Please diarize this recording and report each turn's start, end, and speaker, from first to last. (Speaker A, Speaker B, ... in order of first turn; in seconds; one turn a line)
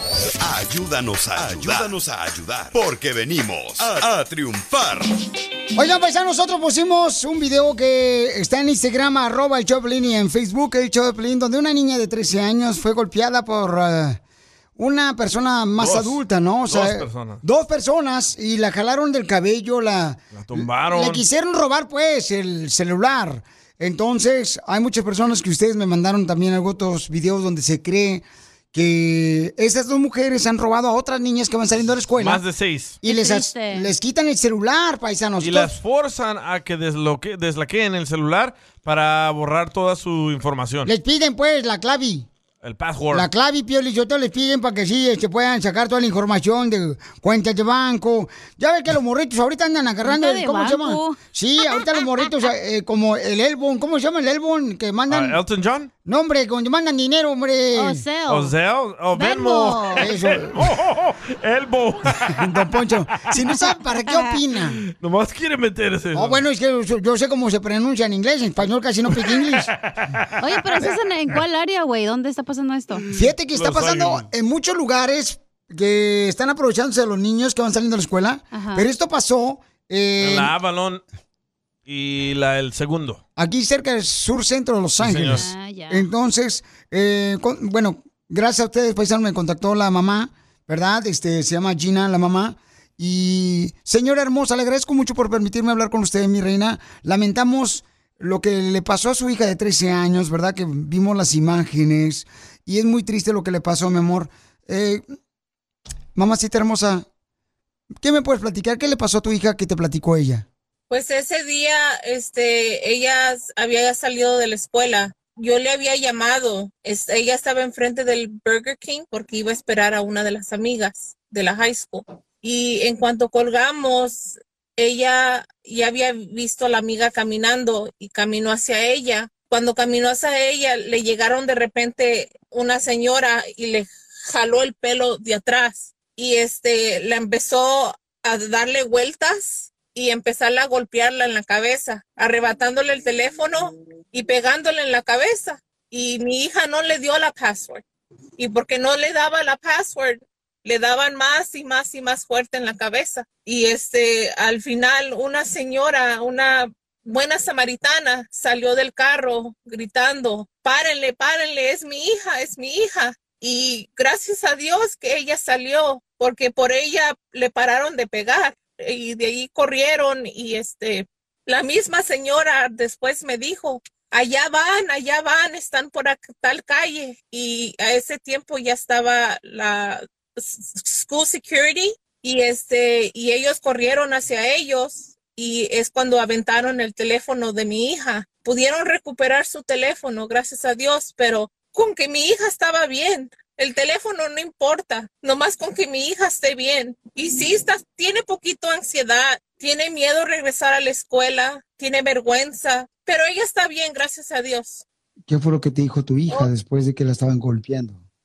Speaker A: 0.4-5.2
Speaker B: 5.8-14.2
Speaker B: 14.8-32.4
Speaker C: 15.8-17.4
Speaker C: 20.3-21.2
Speaker C: 32.2-33.0
Speaker B: 33.0-35.8
Speaker D: 33.0-33.9
Speaker C: 35.4-40.9
Speaker B: 40.9-42.3
Speaker C: 42.6-43.3
Speaker B: 43.1-55.4
Speaker D: 50.0-51.2
Speaker C: 55.1-55.9
Speaker B: 56.0-58.0
Speaker D: 57.8-58.5
Speaker C: 58.3-62.4
Speaker D: 59.1-60.0
Speaker B: 59.9-60.7
Speaker B: 62.3-64.8
Speaker C: 64.9-66.4
Speaker B: 66.1-69.7
Speaker C: 69.8-70.3
Speaker D: 70.4-73.1
Speaker B: 73.1-80.5
Speaker C: 73.5-74.3
Speaker D: 78.5-78.8
Speaker C: 80.2-81.0
Speaker C: 81.9-83.2
Speaker B: 83.4-105.0
Speaker C: 85.0-85.5
Speaker D: 85.3-86.1
Speaker B: 106.2-107.1
Speaker B: 108.0-110.5
Speaker E: 110.9-147.8
Speaker E: 148.4-204.8
Speaker B: 205.3-208.0